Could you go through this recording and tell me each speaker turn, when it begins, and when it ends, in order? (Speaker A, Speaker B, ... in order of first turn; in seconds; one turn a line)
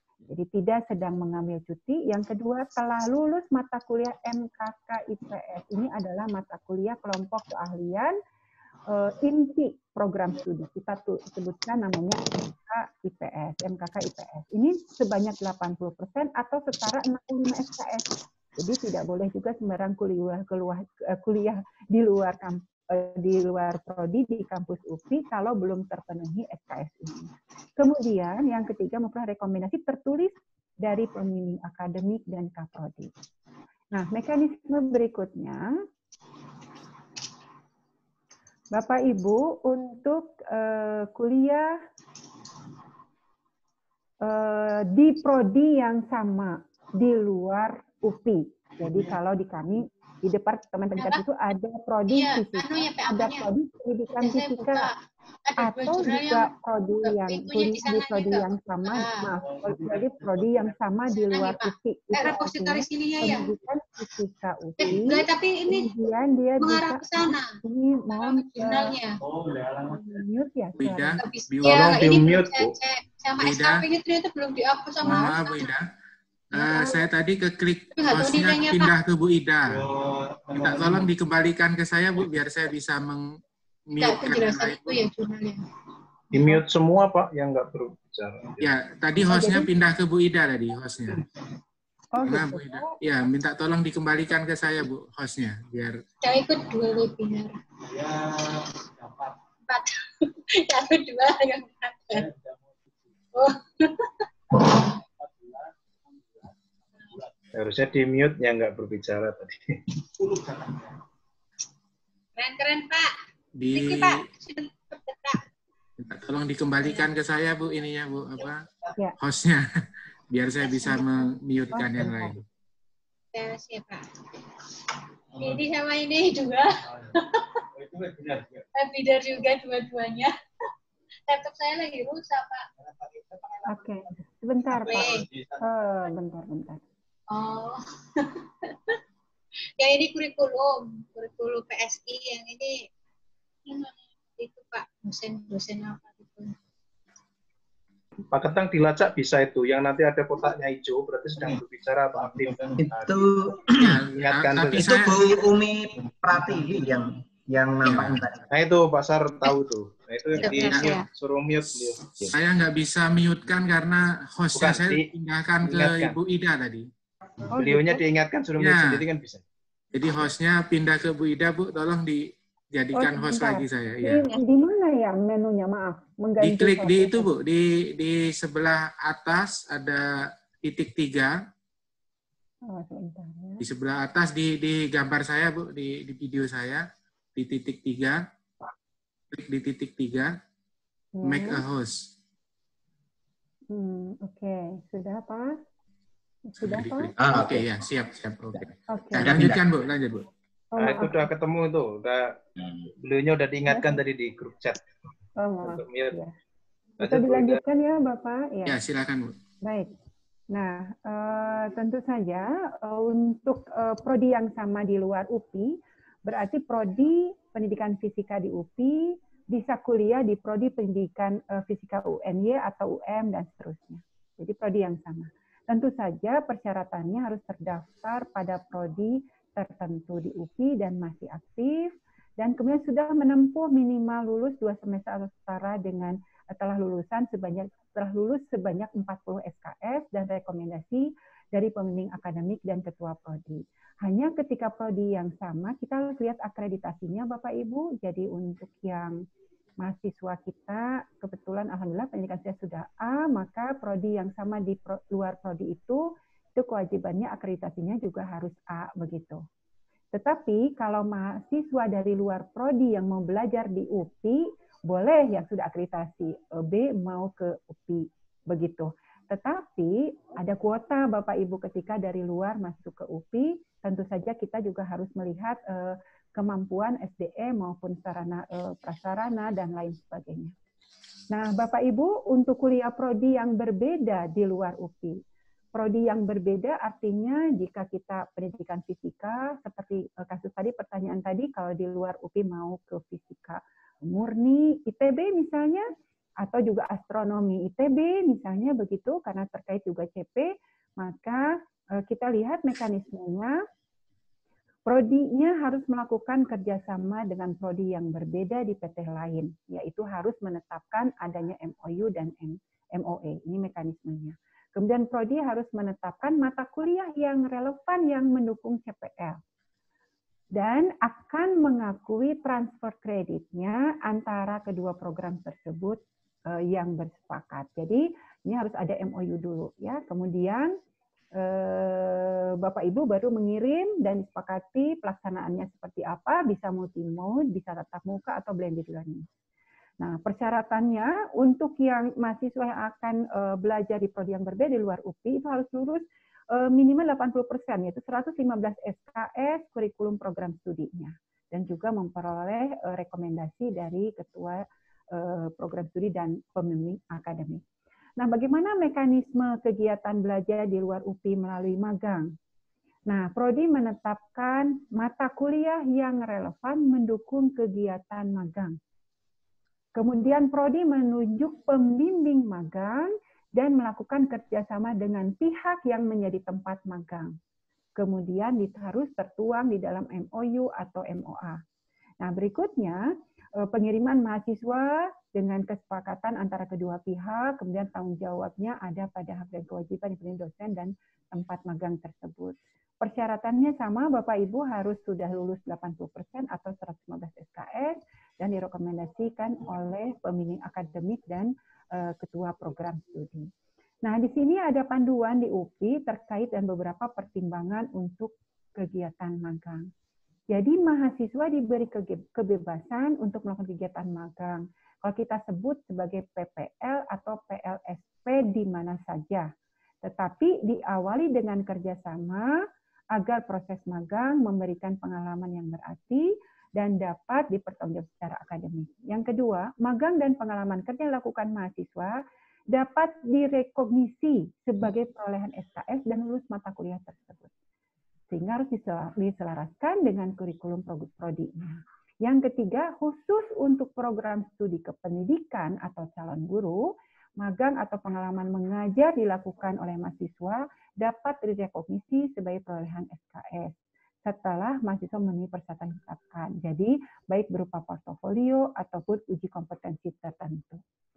Speaker A: 0.3-8.2
Speaker A: 8.9-33.1
Speaker A: 33.9-35.7
Speaker A: 38.7-41.8
Speaker A: 44.2-54.9
Speaker B: 51.0-51.2
Speaker B: 52.1-53.5
Speaker B: 54.1-59.3
Speaker A: 55.6-69.0
Speaker B: 61.1-63.5
Speaker B: 64.8-65.9
Speaker B: 66.6-67.6
Speaker B: 68.1-69.2
Speaker A: 69.8-71.2
Speaker C: 70.8-72.3
Speaker B: 71.2-75.7
Speaker D: 71.6-72.7
Speaker C: 73.4-73.8
Speaker C: 75.0-75.9
Speaker C: 76.5-79.9
Speaker A: 76.5-77.0
Speaker B: 78.0-78.9
Speaker C: 80.5-83.4
Speaker C: 83.9-85.0
Speaker B: 84.0-85.6
Speaker D: 86.3-88.7
Speaker C: 88.6-91.2
Speaker A: 89.2-89.7
Speaker A: 92.1-93.0
Speaker C: 92.2-96.0
Speaker B: 96.2-97.5
Speaker B: 99.7-102.3
Speaker B: 103.3-104.1
Speaker D: 107.5-109.9
Speaker B: 112.3-113.1
Speaker C: 113.6-114.2
Speaker B: 113.7-115.4
Speaker C: 116.0-118.6
Speaker B: 116.8-117.1
Speaker C: 119.2-119.6
Speaker C: 120.3-122.4
Speaker A: 121.7-122.3
Speaker B: 123.3-124.0
Speaker B: 125.3-127.5
Speaker B: 128.7-130.3
Speaker B: 131.3-132.6
Speaker A: 133.6-136.8
Speaker B: 134.7-135.3
Speaker B: 137.3-138.9
Speaker B: 139.8-142.8
Speaker B: 143.7-146.5
Speaker D: 148.3-153.0
Speaker E: 152.8-154.0
Speaker C: 153.8-155.2
Speaker D: 154.1-155.2
Speaker E: 154.8-158.4
Speaker C: 157.8-158.2
Speaker D: 158.5-162.3
Speaker B: 160.4-161.1
Speaker C: 160.5-161.0
Speaker C: 162.3-166.9
Speaker D: 164.5-165.0
Speaker D: 165.6-166.2
Speaker A: 167.5-168.0
Speaker D: 167.5-169.4
Speaker C: 168.6-169.0
Speaker C: 169.9-174.3
Speaker A: 173.0-177.3
Speaker C: 176.4-180.0
Speaker C: 180.6-181.4
Speaker A: 182.7-183.6
Speaker C: 183.6-186.8
Speaker C: 187.3-188.2
Speaker C: 189.3-190.3
Speaker A: 191.1-191.6
Speaker C: 191.2-192.1
Speaker A: 193.7-195.6
Speaker A: 196.5-197.1
Speaker C: 196.6-200.3
Speaker E: 197.2-197.6
Speaker A: 198.9-199.4
Speaker A: 200.7-201.3
Speaker D: 200.8-204.8
Speaker A: 205.4-206.3
Speaker D: 205.6-206.2
Speaker D: 207.0-207.6
Speaker A: 207.0-208.8
Speaker C: 208.7-209.3
Speaker A: 209.6-209.9
Speaker A: 210.5-249.2
Speaker A: 249.8-256.0
Speaker A: 256.6-259.4
Speaker A: 260.1-280.5
Speaker A: 281.3-285.2
Speaker A: 285.7-295.9
Speaker A: 296.4-303.6
Speaker A: 304.9-319.4
Speaker A: 320.5-326.0
Speaker A: 326.5-330.7
Speaker A: 331.4-339.2
Speaker A: 340.0-357.6
Speaker A: 358.2-362.3
Speaker A: 363.1-368.8
Speaker A: 369.9-377.3
Speaker A: 378.0-381.6
Speaker A: 382.2-383.0
Speaker A: 383.6-403.5
Speaker A: 404.0-409.9
Speaker A: 410.5-419.5
Speaker A: 420.0-422.5
Speaker A: 423.1-432.2
Speaker A: 432.7-437.5
Speaker A: 438.3-446.8
Speaker A: 447.4-460.8